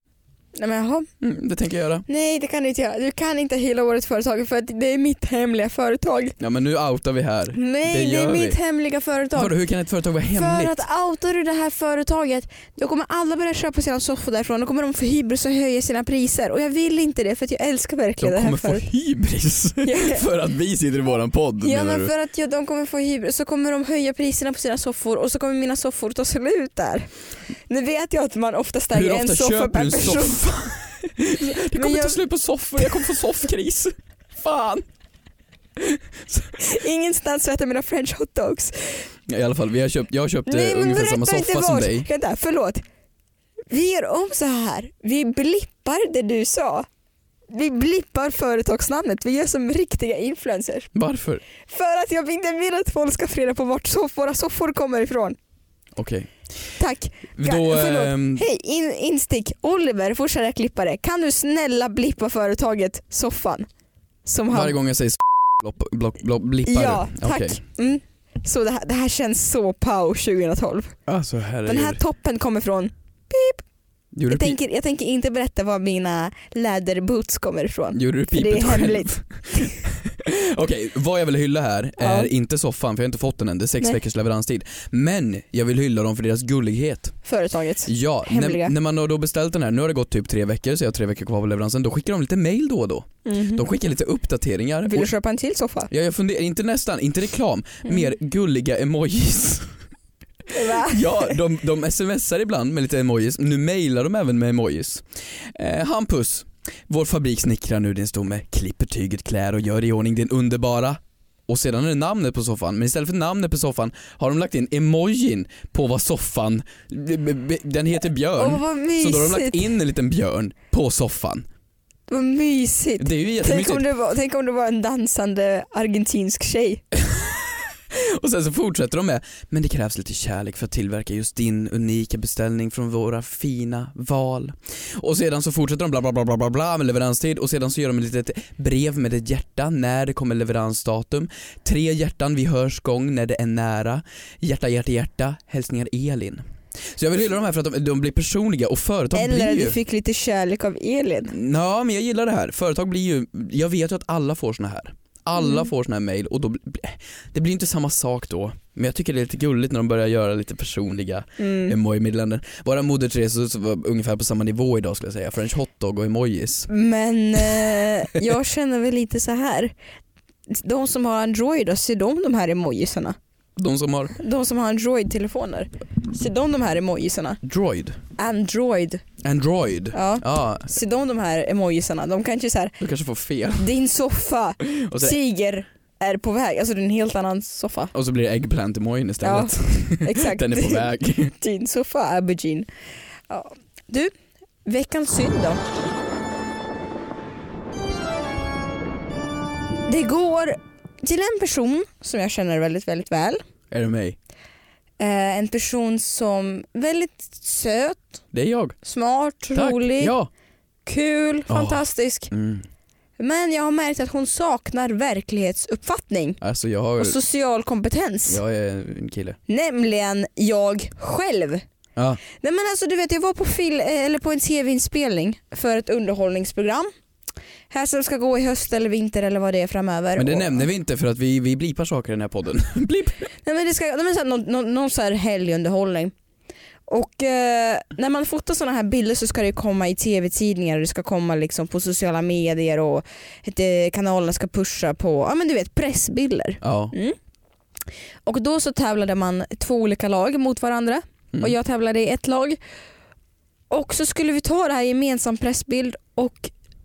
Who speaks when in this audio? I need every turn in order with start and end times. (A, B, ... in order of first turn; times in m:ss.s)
0:00.6-0:01.1 A
0:01.2-0:02.0 B
0:02.1-0:06.4 A
0:06.4-0:08.6 B
0:07.5-0:09.5 A
0:09.4-0:10.8 B
0:10.3-0:18.8 A
0:18.2-0:22.1 B
0:19.8-0:20.3 A
0:21.6-0:27.1 A
0:27.7-0:30.5 A
0:28.9-0:34.8 B
0:31.7-0:32.2 A
0:32.8-0:33.2 A
0:35.8-0:36.5 B
0:36.6-0:39.0 A
0:39.3-0:42.1 B
0:40.5-0:42.8 A
0:43.7-0:46.9 A
0:47.5-0:50.9 A
0:50.9-0:51.4 B
0:51.6-0:55.4 A
0:56.0-0:56.3 B
0:56.8-1:03.7 A
0:57.4-0:58.4 B
1:04.3-1:04.8 A
1:04.5-1:07.6 B
1:06.7-1:11.0 A
1:11.1-1:12.0 B
1:11.7-1:13.6 A
1:14.1-1:14.6 B
1:14.3-1:19.8 A
1:17.9-1:27.2 B
1:22.0-1:22.3 A
1:27.2-1:28.7 A
1:27.9-1:35.1 B
1:33.2-1:33.7 A
1:34.9-1:35.9 A
1:35.9-1:39.8 B
1:40.5-1:41.4 A
1:40.6-2:01.5 B
1:58.4-1:59.7 A
2:02.1-2:06.8 A
2:03.0-2:03.9 B
2:06.9-2:29.8 B
2:29.1-2:31.3 A
2:31.3-2:46.7 B
2:41.4-2:41.8 A
2:46.7-2:49.7 A
2:47.4-2:47.9 B
2:50.5-2:53.2 A
2:53.6-2:54.2 B
2:54.2-2:57.4 A
2:57.4-2:58.0 B
2:58.2-2:59.0 A
2:59.2-3:00.8 B
2:59.9-3:02.8 A
3:02.8-3:03.7 B
3:03.6-3:07.9 A
3:04.6-3:05.2 B
3:07.9-3:11.3 B
3:09.2-3:10.9 A
3:11.4-3:12.7 A
3:13.3-3:14.1 A
3:14.6-3:15.6 A
3:19.9-3:23.4 A
3:23.7-3:24.2 B
3:25.0-3:28.2 A
3:28.3-3:28.8 B
3:28.8-3:30.2 A
3:29.5-3:30.3 B
3:30.9-3:32.3 A
3:31.5-3:32.6 B
3:33.2-3:36.4 A
3:36.4-3:37.2 B
3:37.0-3:38.4 A
3:38.3-3:39.4 B
3:39.5-3:41.6 A
3:42.0-3:42.2 B
3:42.3-3:46.9 A
3:47.7-3:50.6 A
3:50.2-3:53.3 B
3:53.4-3:56.1 A
3:56.9-4:07.2 A
4:06.6-4:06.9 B
4:08.3-4:12.6 A
4:13.7-4:16.5 A